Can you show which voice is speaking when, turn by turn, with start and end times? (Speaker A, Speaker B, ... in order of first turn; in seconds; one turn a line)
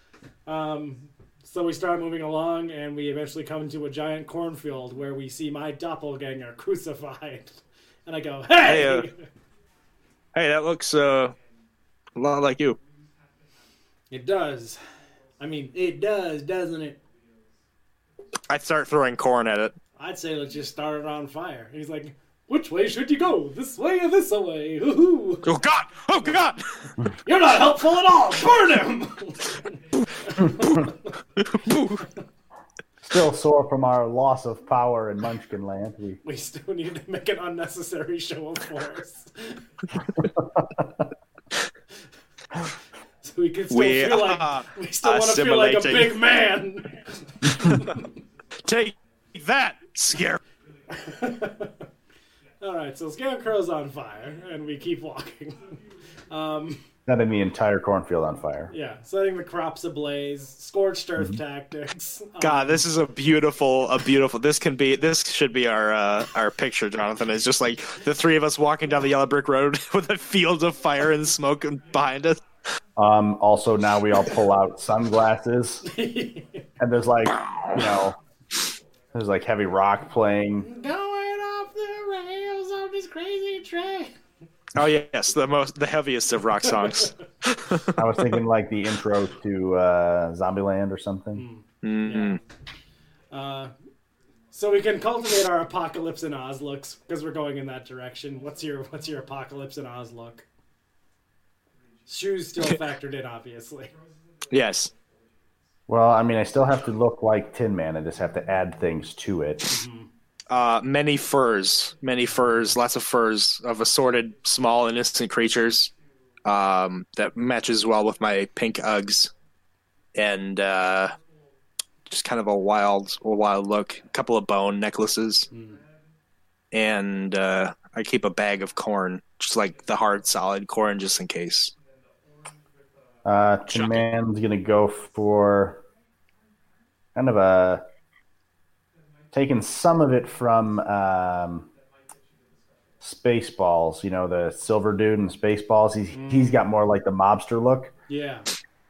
Speaker A: 0.5-9.3
Speaker B: 8.6-9.1
Speaker B: 10.3-11.3
Speaker B: 12.2-12.8
Speaker A: 14.1-14.8
Speaker A: 15.4-17.0
Speaker B: 18.5-19.7
Speaker A: 20.0-25.5
Speaker B: 25.4-26.9
Speaker A: 27.1-31.1
Speaker B: 30.4-30.8
Speaker B: 31.4-32.0
Speaker C: 33.0-36.2
Speaker A: 36.2-39.6
Speaker C: 40.2-40.9
Speaker A: 43.2-48.2
Speaker B: 43.7-46.1
Speaker B: 48.6-50.4
Speaker A: 50.9-51.9
Speaker A: 52.6-55.8
Speaker A: 56.3-56.8
Speaker C: 57.1-58.7
Speaker A: 58.7-62.8
Speaker B: 62.4-72.4
Speaker C: 73.0-75.8
Speaker A: 75.8-76.7
Speaker C: 76.8-78.2
Speaker C: 79.1-80.7
Speaker A: 80.6-84.1
Speaker B: 84.7-88.0
Speaker A: 86.7-87.1
Speaker C: 87.9-91.4
Speaker A: 91.3-92.4
Speaker B: 91.8-92.4
Speaker A: 93.3-93.7
Speaker A: 94.5-100.4
Speaker A: 102.0-103.9
Speaker B: 104.5-104.9
Speaker C: 105.9-109.7
Speaker A: 109.7-110.1
Speaker B: 110.5-115.9
Speaker B: 116.4-119.3
Speaker B: 120.1-121.1
Speaker B: 122.1-125.5
Speaker A: 125.5-125.8
Speaker B: 126.7-131.7
Speaker C: 133.2-135.8
Speaker B: 133.7-134.1
Speaker C: 137.1-137.8
Speaker C: 139.3-141.7
Speaker C: 143.0-147.9
Speaker A: 146.1-146.6
Speaker A: 148.1-148.5